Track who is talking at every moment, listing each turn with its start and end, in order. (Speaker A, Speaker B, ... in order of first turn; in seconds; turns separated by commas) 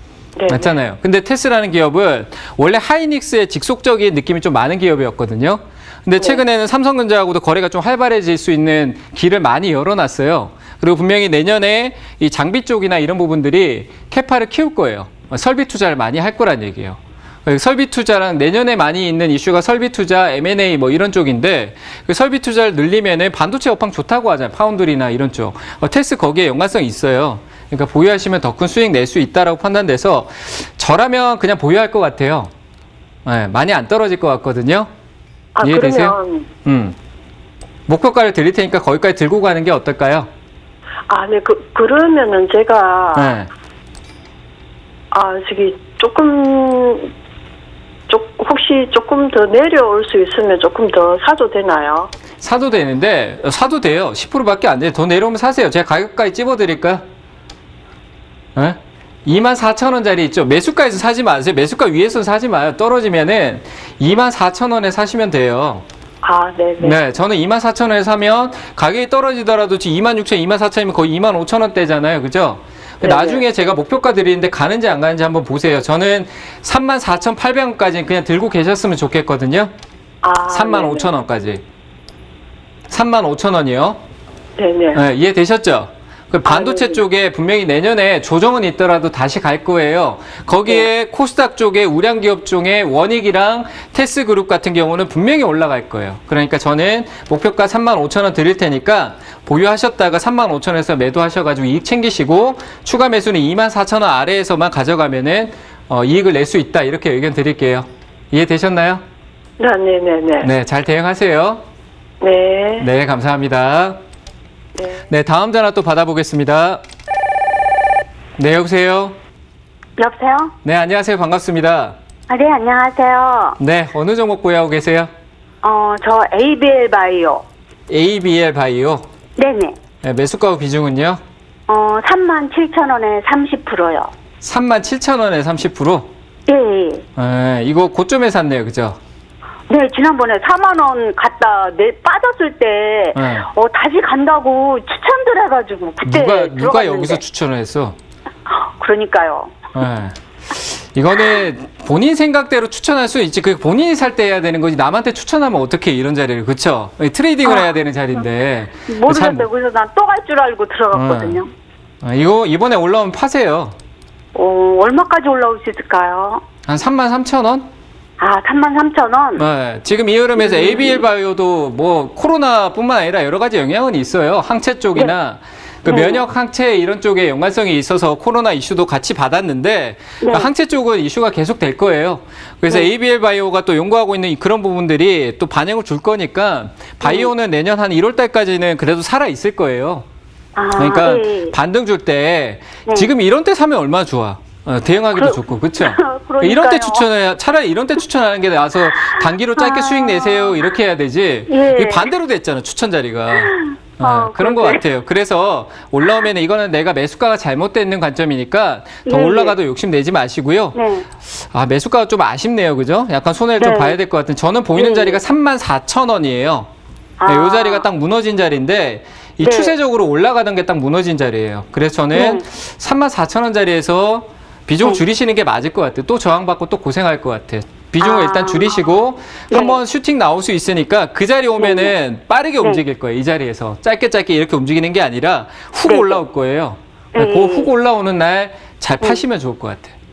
Speaker A: 0.4-0.7, Speaker B: 0.5-32.5, Speaker B: 33.2-34.9, Speaker A: 35.6-36.5, Speaker B: 35.6-37.0, Speaker B: 37.9-40.3, Speaker A: 41.1-43.4, Speaker B: 43.1-43.5, Speaker A: 45.1-47.1, Speaker A: 48.1-52.1, Speaker B: 52.4-57.0, Speaker B: 58.5-65.8, Speaker A: 66.2-67.0, Speaker B: 66.8-79.7, Speaker A: 73.0-73.5, Speaker A: 80.2-81.2, Speaker B: 80.5-81.6, Speaker B: 82.9-84.0, Speaker A: 84.6-85.0, Speaker B: 84.9-109.0, Speaker A: 86.5-87.0, Speaker A: 109.6-110.5, Speaker B: 110.4-111.6, Speaker A: 112.2-112.9, Speaker B: 112.8-114.0, Speaker B: 115.1-116.8, Speaker B: 118.4-119.2, Speaker C: 120.0-120.5, Speaker B: 120.6-122.0, Speaker C: 122.3-123.6, Speaker B: 123.6-125.1, Speaker C: 125.6-127.5, Speaker B: 127.9-129.0, Speaker C: 129.4-129.8, Speaker B: 130.0-131.2, Speaker C: 131.7-134.1, Speaker B: 134.4-136.1, Speaker C: 136.5-137.1, Speaker B: 137.2-139.0, Speaker C: 139.7-147.2, Speaker B: 143.2-143.5, Speaker B: 146.0-148.0, Speaker C: 148.5-149.6, Speaker B: 149.7-159.5, Speaker C: 157.4-157.7, Speaker C: 158.9-161.5, Speaker B: 160.9-161.4, Speaker B: 162.0-163.8, Speaker C: 164.3-166.4, Speaker B: 166.7-167.7, Speaker C: 168.2-169.4, Speaker B: 169.4-190.1, Speaker C: 170.4-171.0, Speaker C: 175.9-176.2, Speaker C: 180.2-180.5, Speaker C: 187.0-187.3, Speaker C: 190.6-191.6, Speaker B: 190.8-210.8, Speaker C: 195.2-197.1, Speaker C: 198.9-200.6, Speaker C: 201.5-202.1, Speaker C: 203.3-204.8, Speaker C: 209.1-209.6, Speaker C: 210.8-211.1, Speaker B: 211.4-216.7, Speaker C: 213.6-214.0, Speaker C: 214.8-215.2, Speaker C: 217.2-217.9, Speaker B: 217.3-239.9, Speaker C: 219.4-219.8, Speaker C: 222.1-222.4, Speaker C: 228.0-228.8, Speaker C: 229.5-229.8, Speaker C: 231.6-231.9, Speaker C: 235.8-236.2, Speaker C: 237.1-237.7